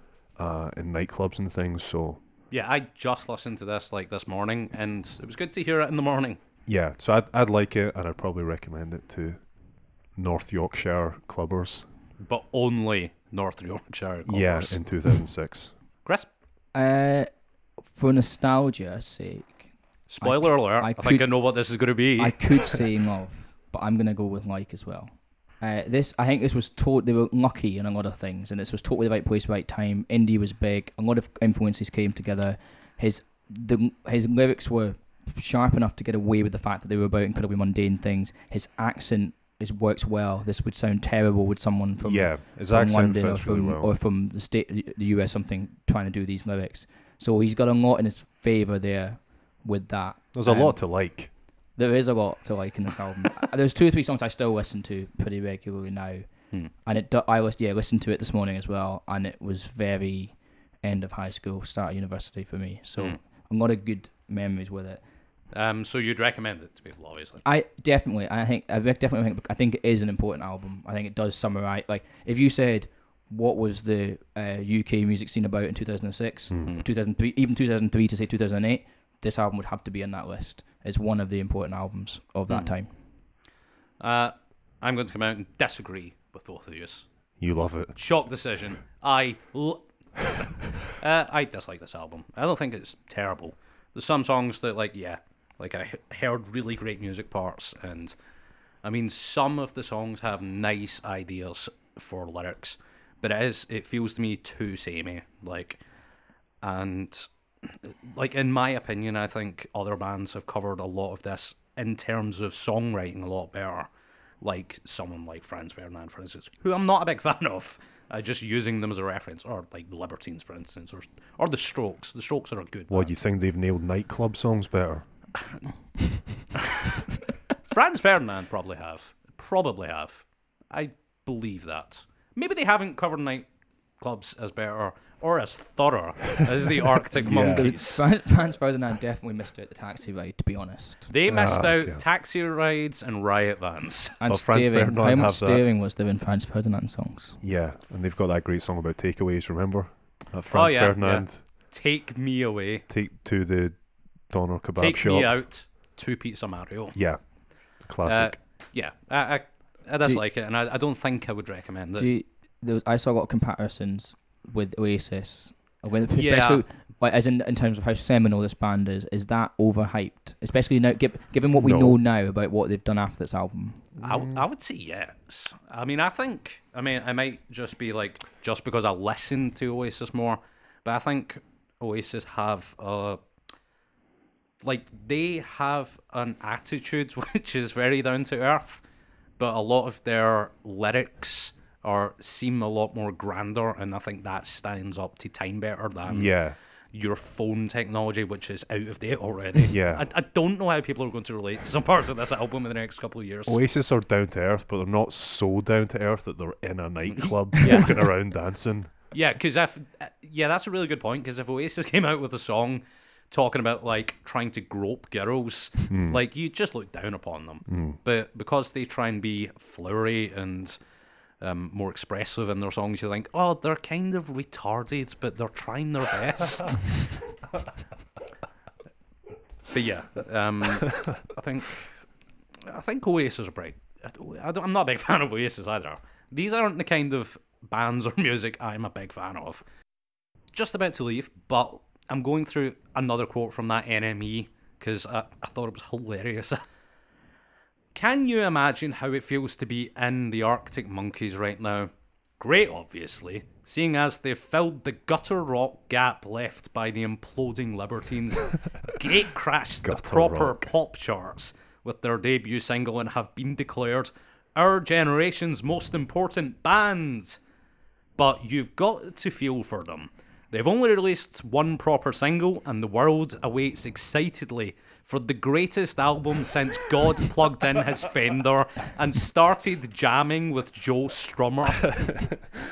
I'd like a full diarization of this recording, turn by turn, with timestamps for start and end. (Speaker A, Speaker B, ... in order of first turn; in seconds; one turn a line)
Speaker A: 0.4-2.2
Speaker B: 2.5-6.4
Speaker A: 6.7-9.4
Speaker A: 10.2-11.9
Speaker B: 12.2-14.8
Speaker A: 14.3-15.7
Speaker C: 16.8-17.3
Speaker C: 17.9-19.7
Speaker B: 20.1-22.8
Speaker C: 20.2-21.3
Speaker C: 22.2-50.8
Speaker A: 42.0-43.9
Speaker A: 50.3-51.3
Speaker C: 51.8-56.3
Speaker C: 56.9-65.0
Speaker B: 65.5-67.4
Speaker C: 67.5-82.9
Speaker A: 76.5-76.8
Speaker B: 84.0-87.1
Speaker A: 87.4-88.0
Speaker B: 88.0-98.1
Speaker B: 98.8-105.8
Speaker B: 106.6-113.9
Speaker B: 114.4-123.1
Speaker A: 122.9-125.1
Speaker B: 127.6-133.5
Speaker B: 134.0-138.0
Speaker A: 137.2-137.8
Speaker C: 137.3-141.1
Speaker B: 141.1-144.2
Speaker A: 141.3-142.0
Speaker C: 144.2-147.4
Speaker A: 144.3-145.6
Speaker A: 147.4-151.4
Speaker B: 150.5-152.8
Speaker A: 152.9-153.8
Speaker A: 154.3-155.3
Speaker B: 154.8-157.0
Speaker A: 156.9-157.2
Speaker A: 157.8-158.4
Speaker B: 158.1-162.1
Speaker C: 162.0-173.9
Speaker B: 166.1-166.6
Speaker A: 171.6-172.0
Speaker A: 174.0-174.4
Speaker B: 174.0-183.2
Speaker B: 184.6-188.8
Speaker B: 189.4-196.3
Speaker A: 196.1-196.6
Speaker B: 196.9-203.6
Speaker A: 199.7-200.1
Speaker A: 203.5-208.9
Speaker B: 207.1-208.1
Speaker B: 209.1-220.8
Speaker A: 215.9-216.2
Speaker A: 217.7-218.0
Speaker B: 221.4-227.1
Speaker B: 229.7-231.9
Speaker B: 232.6-239.6
Speaker B: 240.5-246.6
Speaker B: 247.9-251.9
Speaker B: 252.4-267.4
Speaker A: 259.8-260.7
Speaker B: 268.2-282.1
Speaker A: 282.0-282.3